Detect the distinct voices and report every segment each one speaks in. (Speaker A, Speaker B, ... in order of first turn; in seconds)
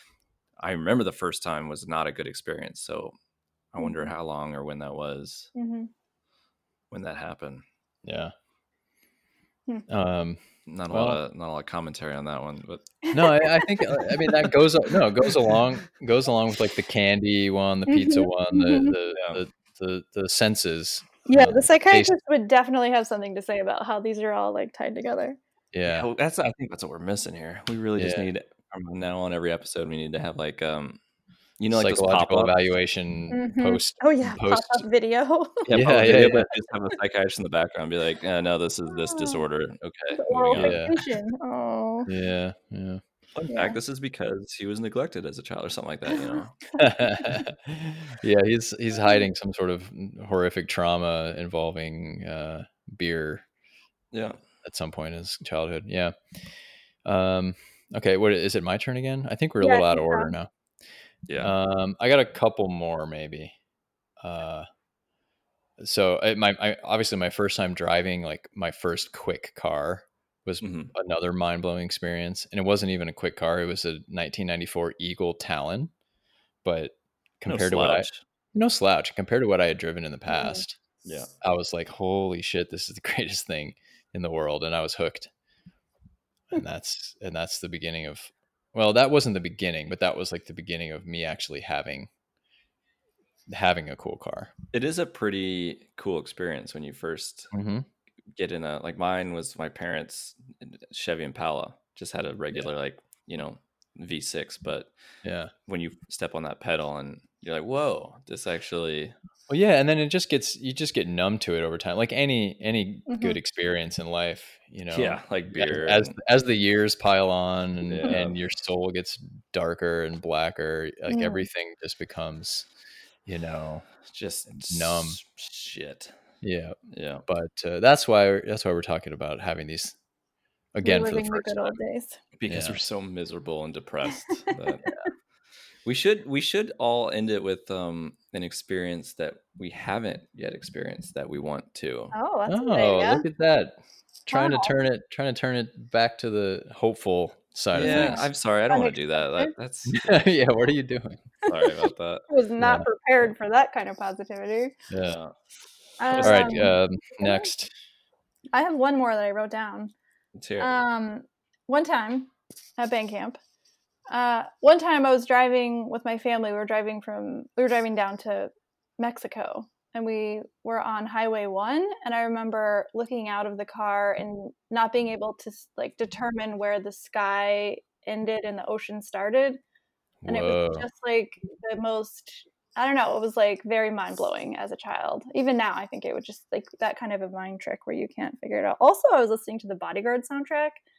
Speaker A: 0.6-3.1, 3.7-5.5, 6.9-7.6, 10.7-12.9, 15.2-15.6, 19.1-19.4, 25.9-31.0, 31.6-32.5, 35.7-40.8, 43.4-46.5, 54.1-54.4, 61.3-61.5, 70.6-70.9, 77.5-78.2, 81.0-81.3, 94.7-97.5, 98.4-104.9, 105.7-109.1, 114.9-116.2, 117.9-118.4, 124.1-126.1, 126.9-127.2, 132.4-134.9, 135.8-142.1, 147.7-150.1, 151.5-152.3, 155.1-155.3, 156.1-156.7, 160.4-160.7
Speaker B: 3.8-4.1, 5.5-5.9, 13.1-14.1, 17.9-19.0, 21.3-25.4, 33.3-35.7, 38.9-39.4, 40.1-42.1, 43.5-43.8, 46.1-47.5, 49.0-49.2, 59.6-60.3, 80.3-80.6, 113.1-113.4, 121.1-121.5, 130.8-132.2, 134.1-135.1, 142.1-143.3, 144.3-144.7, 147.8-149.5, 152.3-154.7, 156.0-157.5, 158.5-159.9, 160.6-163.4, 164.1-179.6, 180.3-190.8
Speaker C: 8.1-8.3, 9.9-11.2, 13.1-22.1, 25.7-26.1, 28.0-28.3, 31.7-34.9, 35.7-36.5, 40.5-40.9, 42.1-43.0, 46.8-53.5, 54.6-56.1, 57.0-60.5, 61.4-63.5, 64.2-64.7, 65.8-75.9, 76.6-80.8, 81.4-85.3, 86.5-92.1, 93.5-94.5, 97.5-97.9, 105.2-105.5, 109.5-122.7, 123.3-123.9, 124.7-125.2, 126.4-130.0, 130.7-131.8, 132.5-132.8, 142.5-148.3, 149.9-151.2, 152.6-152.9, 154.9-155.2, 156.2-157.7, 180.2-180.9